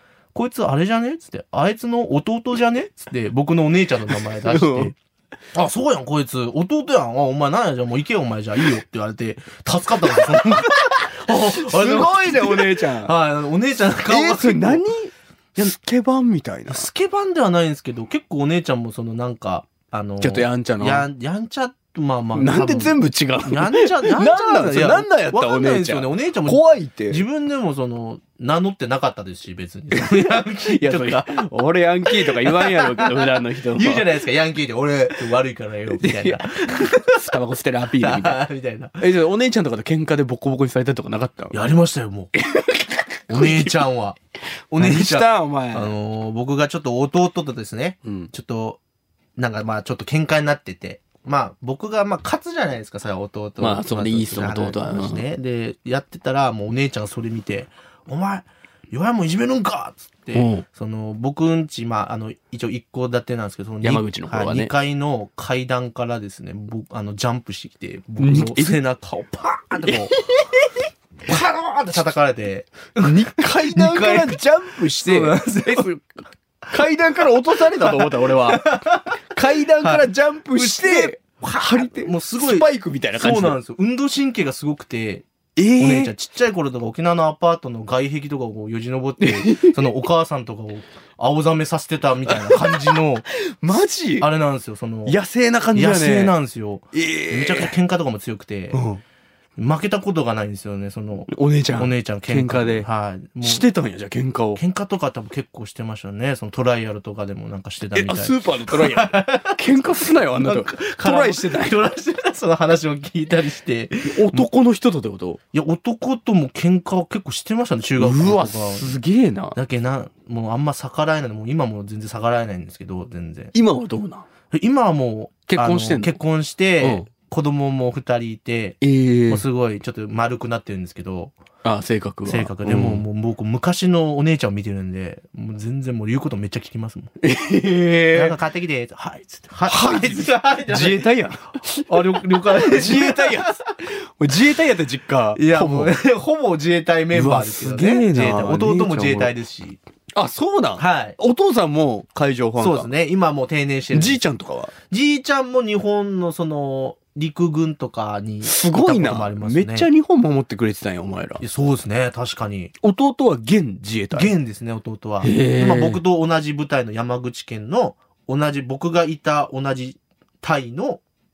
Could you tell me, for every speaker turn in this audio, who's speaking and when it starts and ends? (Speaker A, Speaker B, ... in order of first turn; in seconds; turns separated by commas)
Speaker A: 0.3-5.0, Speaker B: 4.2-4.9, Speaker A: 5.5-14.8, Speaker B: 11.3-13.1, Speaker B: 14.1-16.9, Speaker A: 16.7-31.4, Speaker B: 20.2-21.1, Speaker B: 22.4-27.2, Speaker B: 29.9-34.1, Speaker A: 32.1-37.3, Speaker B: 35.9-38.4, Speaker A: 38.0-39.0, Speaker B: 39.0-41.6, Speaker A: 41.5-42.3, Speaker B: 42.4-43.8, Speaker A: 43.3-44.2, Speaker A: 44.7-48.8, Speaker B: 44.8-45.9, Speaker A: 49.4-70.2, Speaker B: 53.6-55.2, Speaker B: 60.3-60.6, Speaker B: 63.8-64.7, Speaker B: 68.2-68.8, Speaker B: 69.9-70.7, Speaker A: 71.3-76.0, Speaker B: 73.0-76.0, Speaker B: 76.7-78.6, Speaker A: 77.8-79.2, Speaker B: 79.3-83.6, Speaker A: 79.8-93.3, Speaker B: 85.6-86.1, Speaker B: 89.2-89.9, Speaker B: 92.3-94.3, Speaker A: 94.2-95.2, Speaker B: 95.1-96.3, Speaker A: 95.7-98.8, Speaker B: 96.9-97.7, Speaker B: 98.7-99.0, Speaker A: 99.6-103.6, Speaker B: 101.3-102.9, Speaker B: 103.4-104.6, Speaker A: 104.6-109.6, Speaker B: 107.9-111.8, Speaker A: 110.4-114.5, Speaker B: 114.1-115.4, Speaker A: 115.5-119.0, Speaker B: 118.0-119.6, Speaker A: 119.5-123.5, Speaker B: 123.5-124.2, Speaker A: 124.5-131.3, Speaker B: 125.5-126.2, Speaker B: 126.8-127.1, Speaker B: 128.8-129.4, Speaker B: 131.6-133.0, Speaker A: 132.3-137.1, Speaker B: 137.2-138.4, Speaker A: 138.1-141.1, Speaker B: 139.7-145.9, Speaker A: 141.7-143.6, Speaker A: 145.3-149.8, Speaker B: 147.1-149.3, Speaker B: 150.1-152.9, Speaker A: 150.8-151.2, Speaker A: 152.6-154.2, Speaker B: 153.9-154.7, Speaker A: 154.9-159.9, Speaker B: 158.4-161.4, Speaker A: 161.4-162.7, Speaker B: 162.8-164.3, Speaker A: 164.1-171.0, Speaker B: 165.2-166.0